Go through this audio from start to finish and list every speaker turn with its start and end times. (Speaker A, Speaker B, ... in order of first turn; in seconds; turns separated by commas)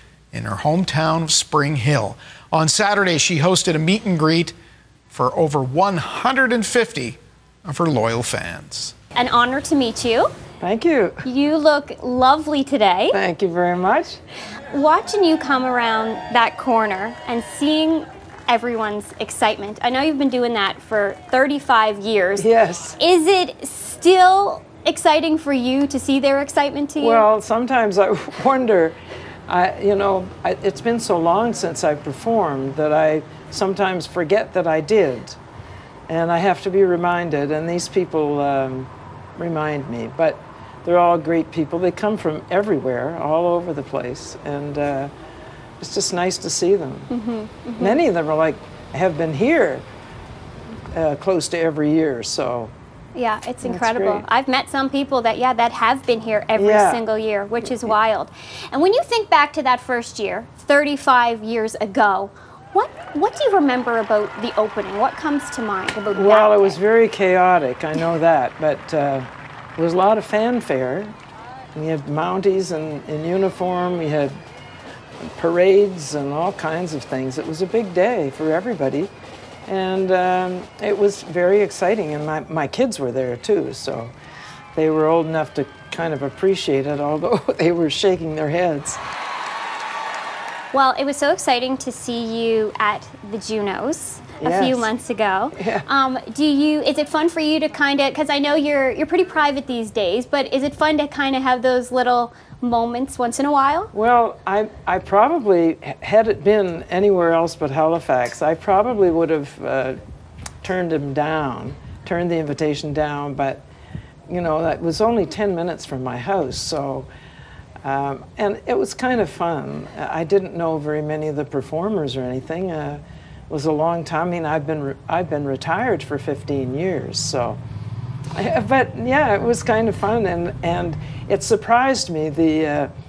Speaker A: 0.3-4.5, Speaker A: 5.1-8.9, Speaker B: 9.1-10.3, Speaker C: 10.6-11.2, Speaker B: 11.2-13.2, Speaker C: 13.1-14.2, Speaker B: 14.7-27.2, Speaker C: 22.4-22.9, Speaker C: 27.0-29.0, Speaker C: 29.5-35.4, Speaker C: 36.1-45.1, Speaker C: 45.8-47.1, Speaker B: 47.1-48.0, Speaker C: 47.8-49.8, Speaker C: 50.9-52.7, Speaker B: 53.1-66.8, Speaker C: 53.6-54.2, Speaker C: 56.5-57.0, Speaker C: 57.6-57.9, Speaker C: 66.1-71.1, Speaker C: 71.7-74.3, Speaker C: 75.2-79.1, Speaker C: 79.7-84.1, Speaker C: 84.7-89.0, Speaker B: 90.7-103.9, Speaker C: 94.4-94.9, Speaker C: 95.5-95.8, Speaker C: 103.9-110.0, Speaker C: 110.6-113.6, Speaker C: 114.3-117.1, Speaker C: 117.8-127.6, Speaker C: 128.3-132.9